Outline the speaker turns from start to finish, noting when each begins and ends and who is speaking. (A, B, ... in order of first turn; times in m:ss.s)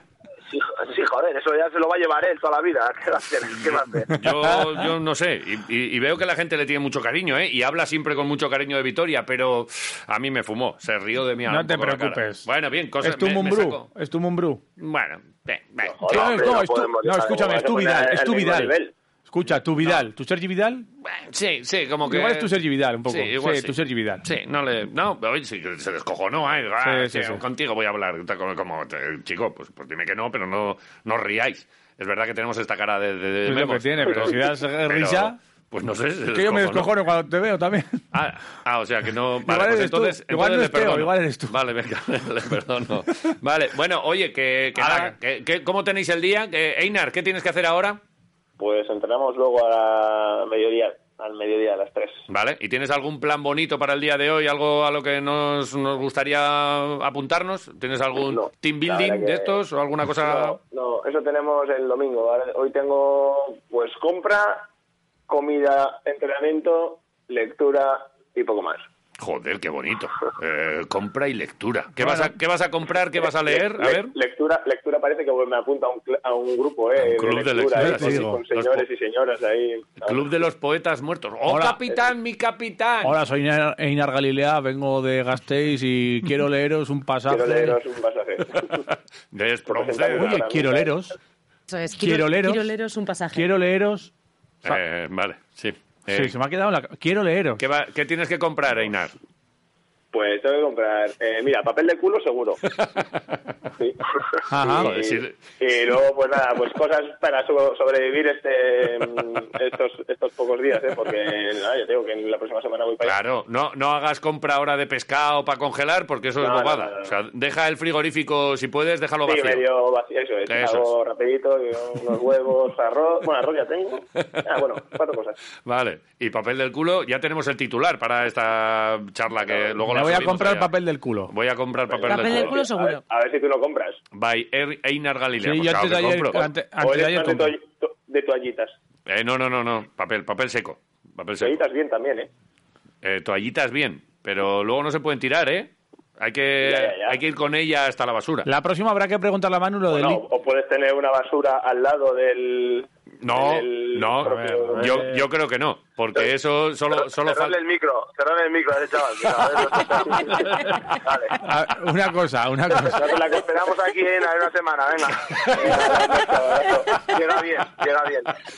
0:00.5-0:04.1 A
0:04.1-0:04.9 B
0:04.1-0:13.8 C
0:11.5-0:12.5 B
0:13.0-0:14.6 B
0:14.8-0:16.6 C
0:15.9-0:17.5 A
0:16.1-0:18.7 B
0:17.2-0:18.9 D
0:19.3-0:20.9 B
0:21.0-0:22.5 C
0:22.1-0:24.2 B
0:23.0-0:36.9 C
0:26.8-0:27.4 B
0:33.4-0:35.4 B
0:36.3-0:38.0 B
0:38.1-0:48.0 C
0:39.4-0:41.5 B
0:44.8-0:45.1 B
0:48.6-0:52.2 D
0:52.3-1:00.6 C
0:58.2-0:59.6 D
1:00.2-1:04.6 D
1:05.3-1:08.8 D
1:09.2-1:14.1 C
1:12.0-1:12.3 B
1:13.2-1:20.3 D
1:17.0-1:18.8 C
1:17.8-1:18.4 B
1:20.0-1:23.1 C
1:21.5-1:21.8 B
1:23.0-1:27.8 B
1:27.3-1:28.8 D
1:28.7-1:30.4 C
1:29.7-1:31.0 D
1:30.1-1:31.1 B
1:31.7-1:33.5 E
1:32.0-1:32.6 B
1:33.3-1:34.1 B
1:34.6-1:36.3 C
1:36.1-1:37.6 B
1:37.6-1:39.1 C
1:40.1-1:42.6 D
1:43.8-1:44.0 D
1:44.5-1:45.0 B
1:44.6-1:53.1 D
1:44.6-1:45.4 C
1:53.0-1:59.6 C
1:56.4-1:57.1 D
1:59.2-2:05.4 D
2:00.5-2:00.9 C
2:05.6-2:10.7 C
2:09.4-2:09.8 D
2:09.8-2:11.3 B
2:11.3-2:12.6 C
2:11.9-2:14.0 D
2:12.1-2:13.0 E
2:14.1-2:16.4 C
2:15.4-2:17.5 B
2:16.8-2:18.8 D
2:19.1-2:21.6 C
2:21.4-2:22.3 D
2:23.0-2:28.5 C
2:26.6-2:27.2 D
2:28.4-2:30.2 B
2:29.9-2:35.0 D
2:33.2-2:37.6 C
2:34.4-2:35.1 B
2:37.2-2:41.4 A
2:39.9-2:40.4 D
2:41.4-2:43.1 B
2:42.7-2:43.7 D
2:43.3-2:45.7 A
2:45.3-2:46.0 C
2:45.5-2:47.0 D
2:47.0-2:48.4 A